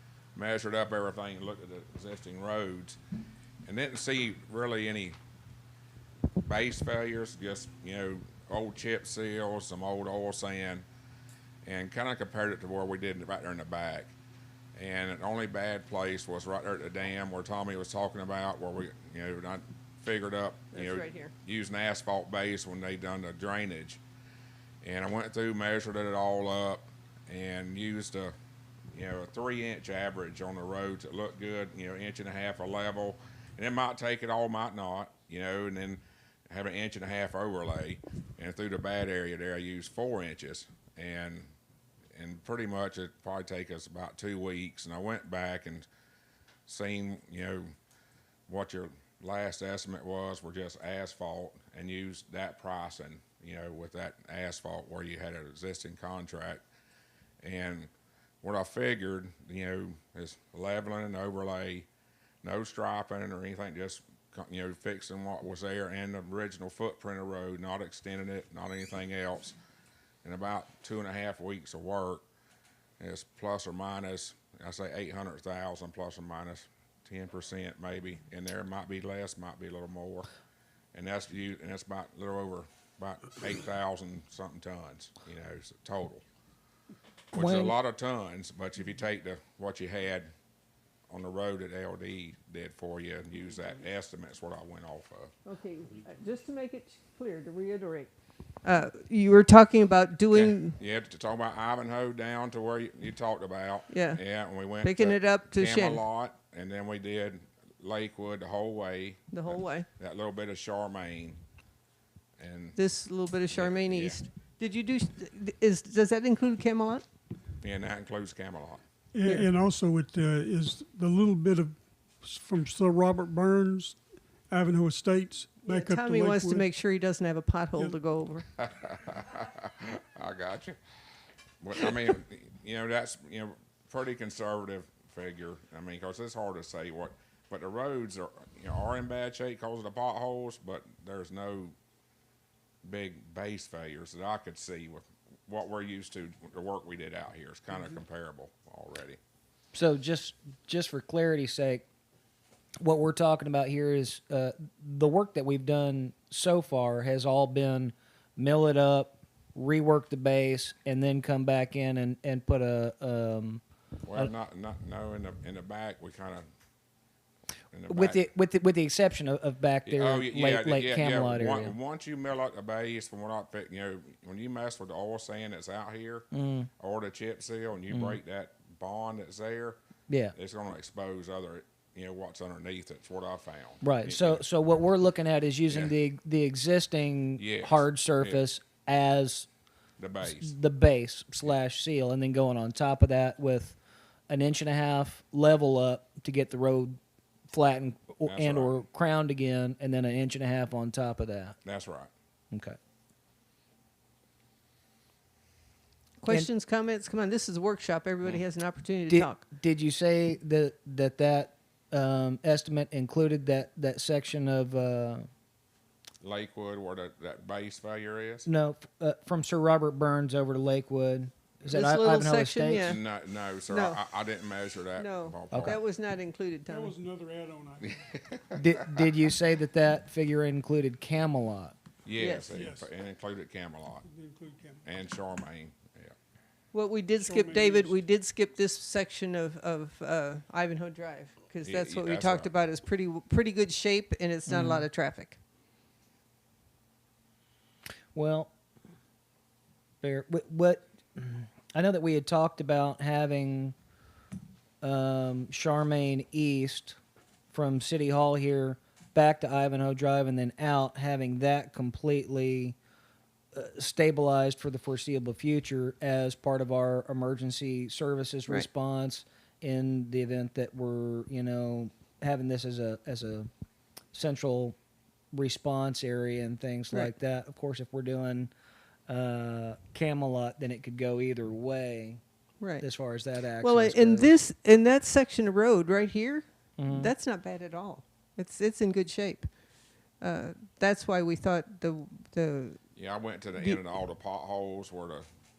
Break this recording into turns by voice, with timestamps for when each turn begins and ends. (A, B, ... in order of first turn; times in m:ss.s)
0:00.3-0:03.0 A
0:03.6-0:05.2 A
0:06.4-0:10.8 A
0:11.6-0:14.2 A
0:14.7-0:24.0 A
0:20.7-0:21.3 B
0:24.8-0:28.3 A
0:28.9-0:41.5 A
0:42.2-0:45.9 A
0:46.7-0:47.7 A
0:48.5-0:56.6 A
0:57.4-0:57.9 A
0:58.4-1:01.9 A
1:02.4-1:09.6 A
1:10.2-1:12.2 A
1:13.0-1:20.3 A
1:20.9-1:26.2 A
1:27.3-1:30.3 A
1:27.3-1:27.8 C
1:31.1-1:35.3 A
1:35.4-1:38.1 B
1:38.6-1:40.8 B
1:40.3-1:51.4 A
1:43.9-1:44.2 B
1:44.8-1:46.0 B
1:49.3-1:49.9 B
1:52.4-1:52.8 A
1:52.8-1:57.0 B
1:53.5-1:54.2 A
1:57.6-1:58.8 A
1:59.1-2:06.7 D
1:59.2-1:59.5 B
2:05.7-2:08.4 B
2:08.6-2:10.8 A
2:11.6-2:21.8 A
2:22.8-2:29.2 A
2:29.7-2:31.8 C
2:32.8-2:43.6 C
2:44.0-2:46.5 A
2:47.7-2:48.2 A
2:47.9-2:51.8 C
2:49.8-2:56.3 A
2:56.3-2:56.7 C
2:56.8-2:59.8 A
2:57.9-2:58.2 C
3:00.1-3:00.3 C
3:00.3-3:04.4 A
3:03.8-3:09.5 C
3:07.4-3:08.4 A
3:10.0-3:10.5 A
3:10.2-3:13.8 C
3:14.3-3:17.0 C
3:17.5-3:21.6 C
3:18.2-3:18.7 A
3:21.6-3:22.1 A
3:22.5-3:22.8 C
3:26.2-3:29.4 B
3:29.1-3:35.3 C
3:36.2-3:38.5 A
3:38.4-3:43.0 C
3:41.7-3:43.0 B
3:42.7-3:45.8 A
3:43.7-3:44.0 B
3:45.0-3:47.0 B
3:45.5-3:45.8 C
3:46.7-3:48.0 D
3:47.8-3:49.0 A
3:48.5-3:51.8 C
3:52.0-3:54.1 A
3:52.2-3:52.6 B
3:52.5-3:52.9 D
3:54.1-3:54.8 D
3:54.8-3:56.2 A
3:56.7-4:05.4 B
3:57.2-3:58.0 D
4:01.6-4:02.5 A
4:04.5-4:04.9 C
4:08.2-4:08.5 C
4:10.0-4:13.8 C
4:14.8-4:17.0 C
4:17.5-4:22.8 C
4:23.5-4:33.5 C
4:34.1-4:34.8 C
4:35.3-4:38.5 C
4:39.1-4:42.2 C
4:42.8-4:44.3 C
4:43.6-4:49.5 B
4:46.8-4:47.1 C
4:50.2-4:52.8 B
4:53.0-4:55.2 A